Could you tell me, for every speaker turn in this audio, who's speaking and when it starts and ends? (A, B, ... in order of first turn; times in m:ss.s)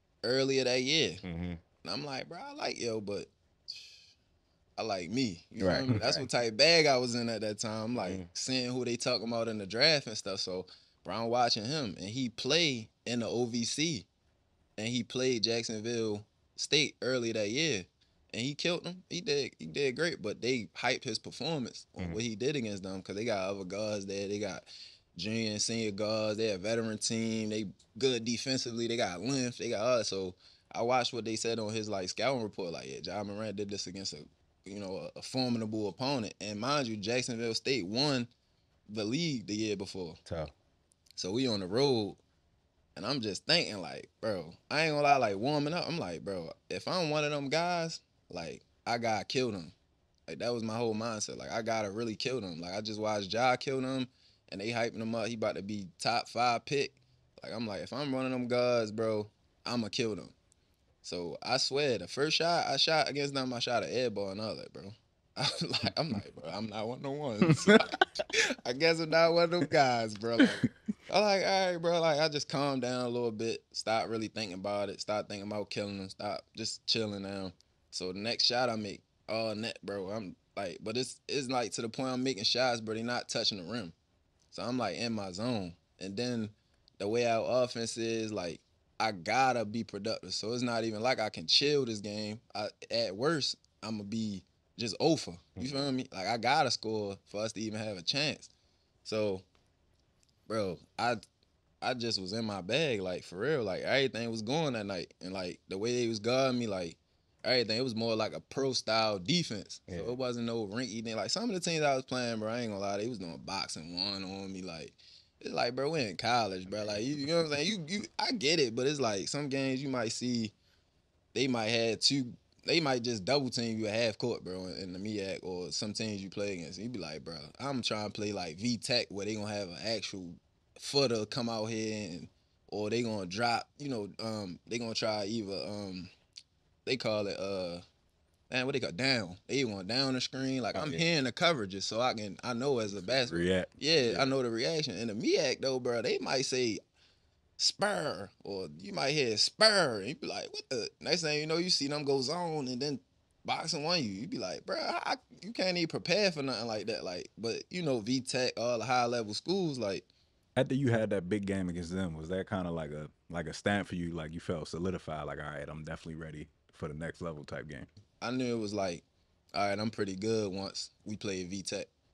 0:00.2-0:01.2 A
0:01.2-0:01.6 B
0:01.8-0:04.0 A
0:04.8-0:14.1 A
0:05.6-0:06.2 B
0:08.0-0:08.2 B
0:14.8-0:38.3 A
0:38.9-0:40.2 A
0:40.2-0:40.5 B
0:41.2-0:42.2 A
0:43.0-0:49.7 A
0:50.3-1:00.3 A
1:01.0-1:23.9 A
1:24.5-1:38.5 A
1:35.6-1:35.8 B
1:39.0-1:39.4 A
1:40.5-1:41.2 A
1:41.8-2:00.5 A
1:49.9-1:50.2 B
1:56.6-1:57.0 B
2:01.3-2:16.1 A
2:16.8-2:17.8 A
2:18.5-2:26.8 A
2:20.7-2:21.0 B
2:22.9-2:23.7 C
2:27.6-2:40.0 A
2:40.6-2:47.9 C
2:48.2-2:51.9 A